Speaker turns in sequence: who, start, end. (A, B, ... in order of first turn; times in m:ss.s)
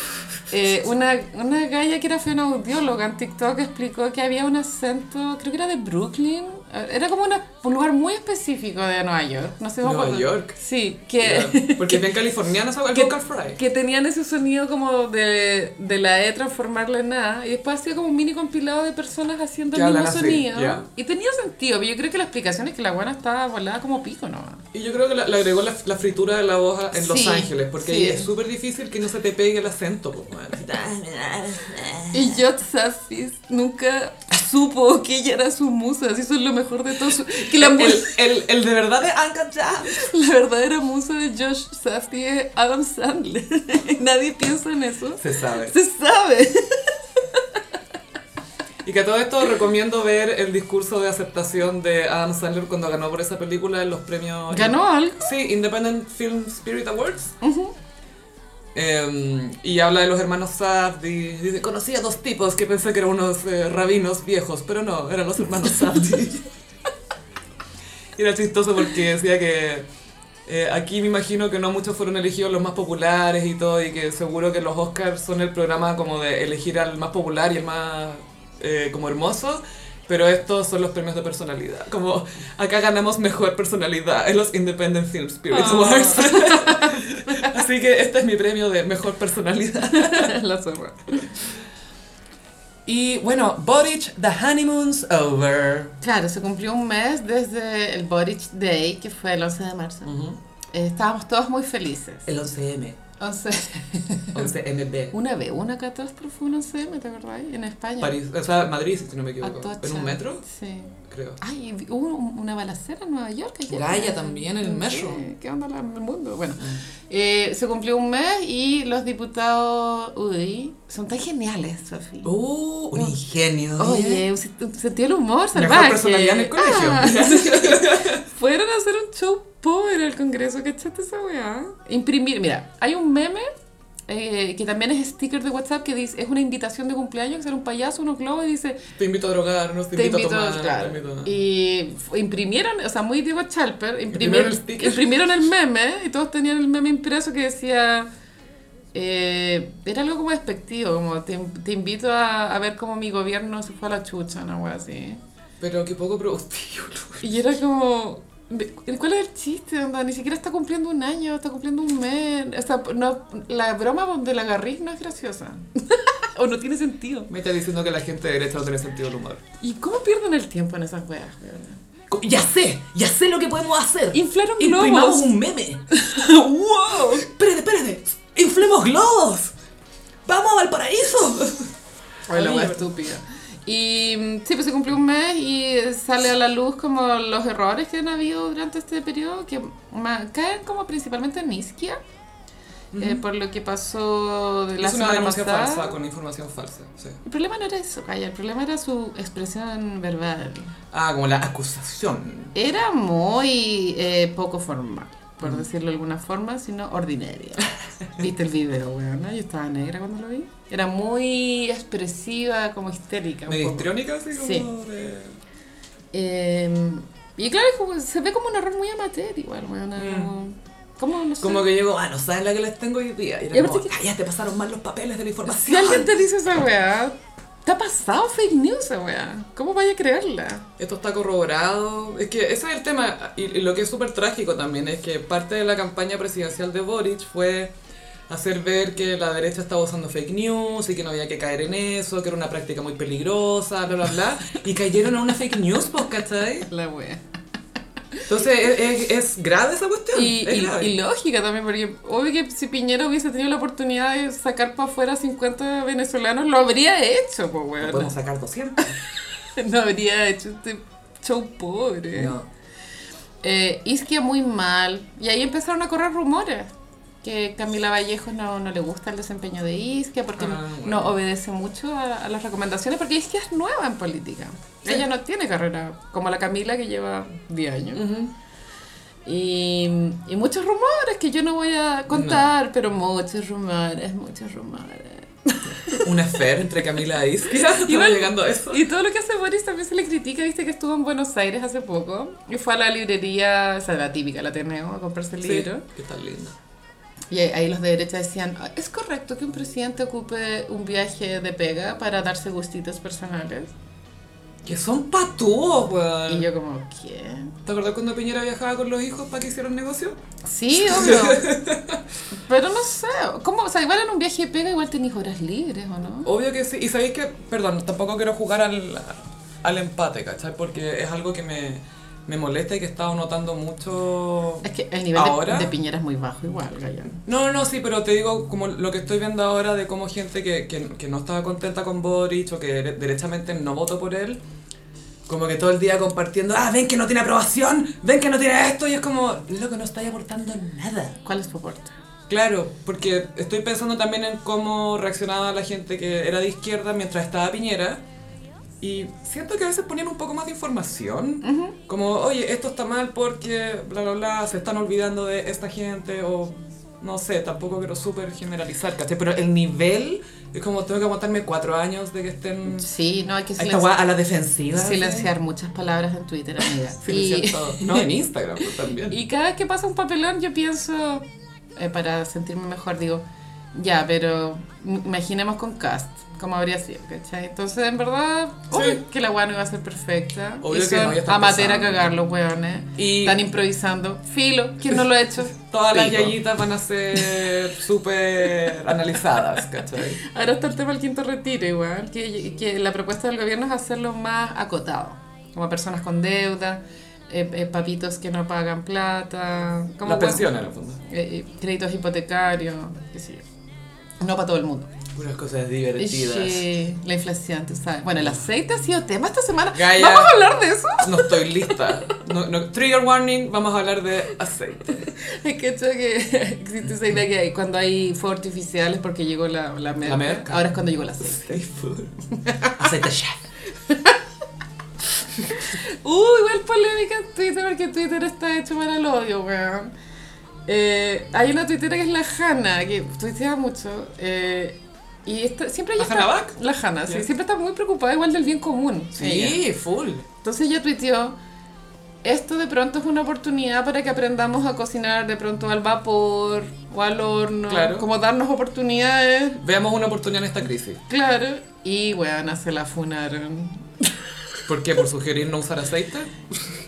0:00.5-0:12.0 A
0:09.8-0:10.5 B
0:11.2-0:13.6 B
0:12.9-0:24.6 A
0:19.7-0:20.8 B
0:24.7-0:30.6 B
0:26.9-0:28.3 A
0:30.5-0:32.4 C
0:32.1-0:38.2 A
0:37.5-0:40.0 B
0:39.8-0:47.6 A
0:45.2-0:45.7 B
0:48.8-0:57.3 B
0:54.5-0:55.3 A
0:57.4-0:57.7 A
0:58.7-1:06.4 B
1:08.2-1:09.8 B
1:10.4-1:30.3 B
1:25.5-1:27.6 A
1:29.9-1:31.5 A
1:32.8-1:36.0 B
1:36.0-1:40.2 A
1:40.0-1:40.4 B
1:40.7-1:42.3 A
1:42.3-1:43.0 C
1:43.2-1:44.5 A
1:44.3-1:45.1 B
1:45.1-1:48.2 A
1:48.0-1:50.4 B
1:49.4-2:02.3 A
1:51.1-1:51.4 B
1:53.7-1:55.2 B
2:02.2-2:04.0 B
2:03.8-2:13.5 A
2:05.5-2:08.2 B
2:14.1-2:18.8 A
2:19.0-2:21.3 B
2:19.9-2:28.1 A
2:24.1-2:25.2 B
2:28.9-2:35.2 A
2:35.6-2:37.4 B
2:37.2-2:47.3 A
2:47.3-2:49.4 B
2:49.6-2:51.8 A
2:52.1-2:55.8 C
2:54.1-2:55.4 A
2:55.9-2:57.3 A
2:57.2-2:59.5 C
3:00.2-3:01.6 C
3:02.3-3:12.0 A
3:02.3-3:02.8 B
3:12.9-3:13.2 B
3:13.0-3:16.0 A
3:14.8-3:17.2 B
3:17.2-3:20.7 A
3:20.9-3:22.5 B
3:22.5-3:34.7 A
3:33.5-3:35.4 B
3:36.1-3:41.7 A
3:40.0-3:40.3 B
3:41.4-3:46.1 B
3:43.5-3:43.9 A
3:45.5-3:50.7 A
3:50.8-3:57.7 B
3:58.3-4:06.7 B
4:06.6-4:07.2 A
4:08.3-4:10.9 B
4:10.1-4:18.1 A
4:17.8-4:18.9 B
4:19.4-4:22.3 A
4:22.1-4:22.4 B
4:23.4-4:26.7 A
4:27.2-4:38.1 A
4:30.4-4:31.1 B
4:37.9-4:38.3 B
4:39.2-4:46.1 A
4:42.1-4:42.5 B
4:45.9-4:48.8 B
4:47.5-4:55.8 A
4:55.4-4:56.5 B
4:57.3-5:03.7 A
5:04.6-5:06.5 B
5:06.3-5:07.5 A
5:07.6-5:10.2 B
5:10.4-5:11.5 A
5:10.7-5:12.0 B
5:12.3-5:16.3 A
5:16.2-5:25.7 B
5:24.6-5:27.2 A
5:27.2-5:34.4 B
5:35.3-5:41.2 B
5:41.2-5:41.9 A
5:42.3-5:48.0 B
5:48.8-6:02.9 B
5:51.4-5:51.8 A
6:02.7-6:03.9 A
6:03.6-6:05.3 B
6:04.7-6:08.1 A
6:07.0-6:09.2 B
6:09.1-6:13.2 A
6:13.7-6:26.3 A
6:18.7-6:19.0 B
6:20.6-6:22.1 B
6:23.0-6:23.4 B
6:25.5-6:30.2 B
6:30.2-6:40.5 A
6:40.0-6:41.0 B
6:41.0-6:43.4 A
6:44.2-6:44.9 A
6:45.1-6:46.6 B
6:46.0-6:52.1 A
6:49.7-6:50.4 B
6:51.0-6:55.1 B
6:54.9-7:01.6 A
7:00.0-7:02.1 B
7:02.4-7:02.8 A
7:02.8-7:03.4 C
7:03.9-7:04.2 A
7:05.5-7:09.9 A
7:10.7-7:19.6 A
7:16.0-7:16.5 B
7:19.2-7:20.2 B
7:20.4-7:21.3 A
7:22.2-7:29.6 A
7:27.7-7:28.1 B
7:29.6-7:31.0 B
7:31.1-7:33.9 A
7:34.7-7:36.4 B